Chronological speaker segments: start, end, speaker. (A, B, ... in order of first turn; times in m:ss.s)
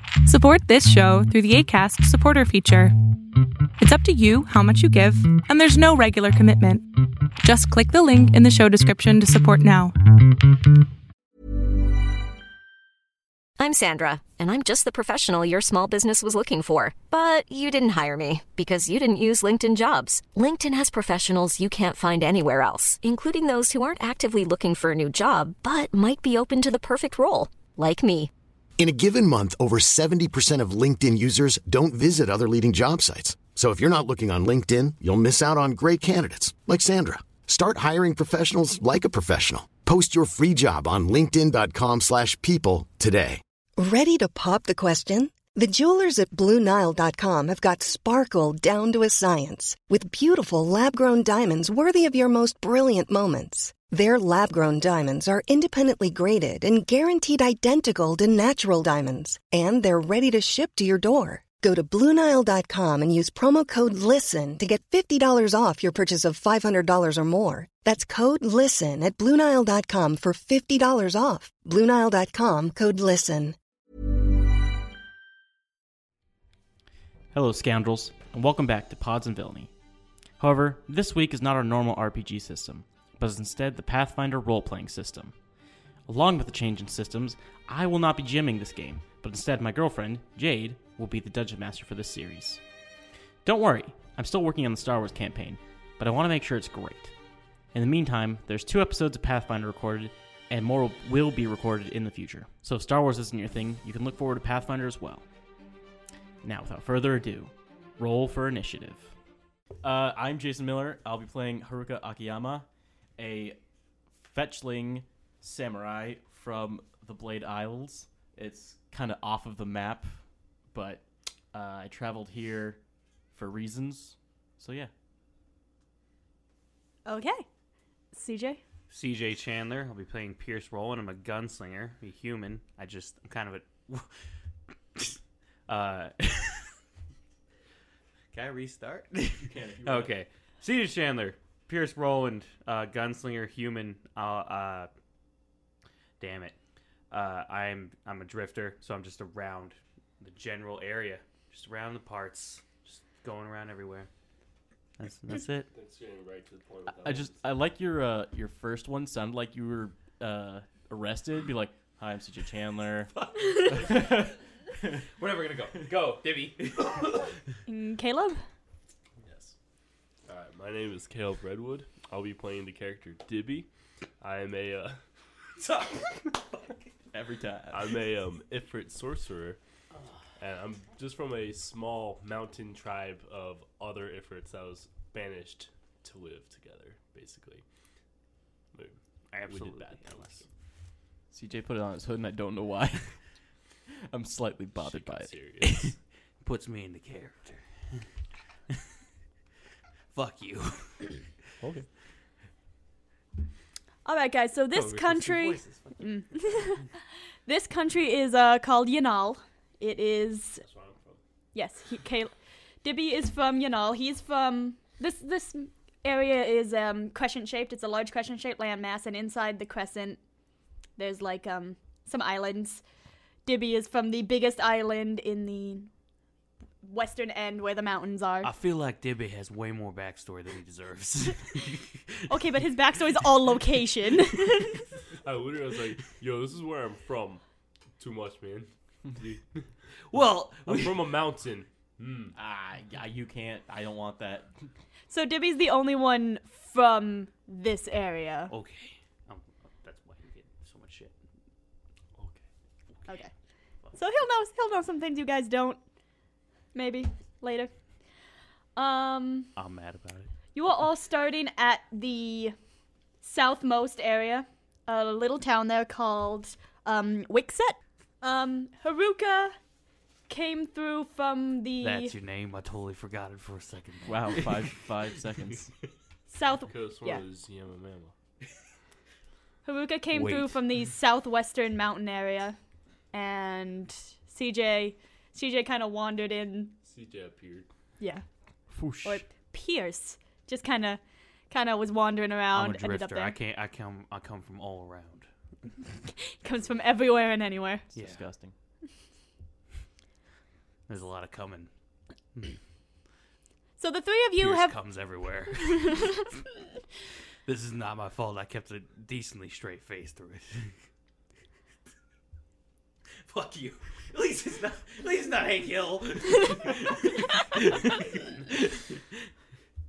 0:00.2-0:03.0 A
0:03.8-0:10.0 A
0:13.6-0:28.3 B
0:28.8-0:43.4 C
0:43.8-1:13.6 D
1:17.3-1:19.7 E
1:20.4-1:25.3 E
1:26.1-1:32.6 E
1:33.4-1:37.1 E
1:37.7-1:45.2 E
1:46.4-1:49.1 E
1:49.8-1:52.7 E
1:53.2-1:53.6 E
1:54.2-2:00.2 E
2:00.7-2:02.8 E
2:03.3-2:04.9 E
2:07.1-2:07.4 F
2:08.1-2:08.6 F
2:08.9-2:14.1 G
2:15.7-2:16.7 G
2:18.3-2:24.9 G
2:19.4-2:20.2 E
2:26.2-2:26.6 G
2:27.1-2:34.1 G
2:35.0-2:35.7 G
2:35.7-2:37.4 H
2:37.0-2:43.1 E
2:43.1-2:44.3 G
2:43.7-2:44.3 E
2:45.0-2:47.4 G
2:47.7-2:48.4 F
2:49.2-2:49.5 H
2:50.3-2:53.7 H
2:54.2-2:55.0 H
2:55.6-2:56.9 G
2:57.1-2:58.0 E
2:57.7-2:59.6 H
2:59.9-3:00.2 G
3:00.4-3:07.6 H
3:08.7-3:10.4 H
3:09.3-3:10.4 G
3:11.3-3:13.2 E
3:14.1-3:16.0 E
3:14.8-3:15.9 H
3:16.4-3:17.7 G
3:20.1-3:21.2 G
3:21.6-3:21.9 H
3:24.0-3:26.9 F
3:24.7-3:26.8 G
3:27.5-3:30.6 F
3:30.6-3:31.2 H
3:31.5-3:32.3 F
3:32.8-3:40.2 F
3:41.0-3:42.8 F
3:43.5-3:45.9 F
3:46.8-3:48.5 F
3:48.4-3:52.2 G
3:52.3-3:54.9 F
3:55.2-3:57.4 H
3:58.0-3:59.7 H
4:00.1-4:01.1 G
4:00.7-4:02.3 H
4:02.3-4:04.5 E
4:05.1-4:08.5 F
4:08.5-4:11.2 G
4:12.2-4:12.4 H
4:14.0-4:15.8 F
4:16.7-4:17.7 F
4:18.8-4:19.5 F
4:19.6-4:20.3 G
4:20.6-4:22.6 F
4:23.2-4:29.6 F
4:30.3-4:32.2 F
4:31.8-4:34.9 G
4:34.0-4:35.7 E
4:36.3-4:37.2 F
4:36.7-4:38.2 H
4:39.6-4:42.6 F
4:40.1-4:40.6 G
4:43.1-4:46.8 F
4:46.8-4:47.7 H
4:48.7-4:49.3 E
4:49.0-4:53.4 F
4:52.5-4:55.3 G
4:56.3-4:57.8 F
4:57.9-4:58.5 E
4:58.0-4:58.2 G
5:00.9-5:01.7 G
5:02.3-5:02.6 G
5:03.8-5:04.8 F
5:04.4-5:06.3 G
5:07.4-5:10.7 G
5:13.3-5:18.8 G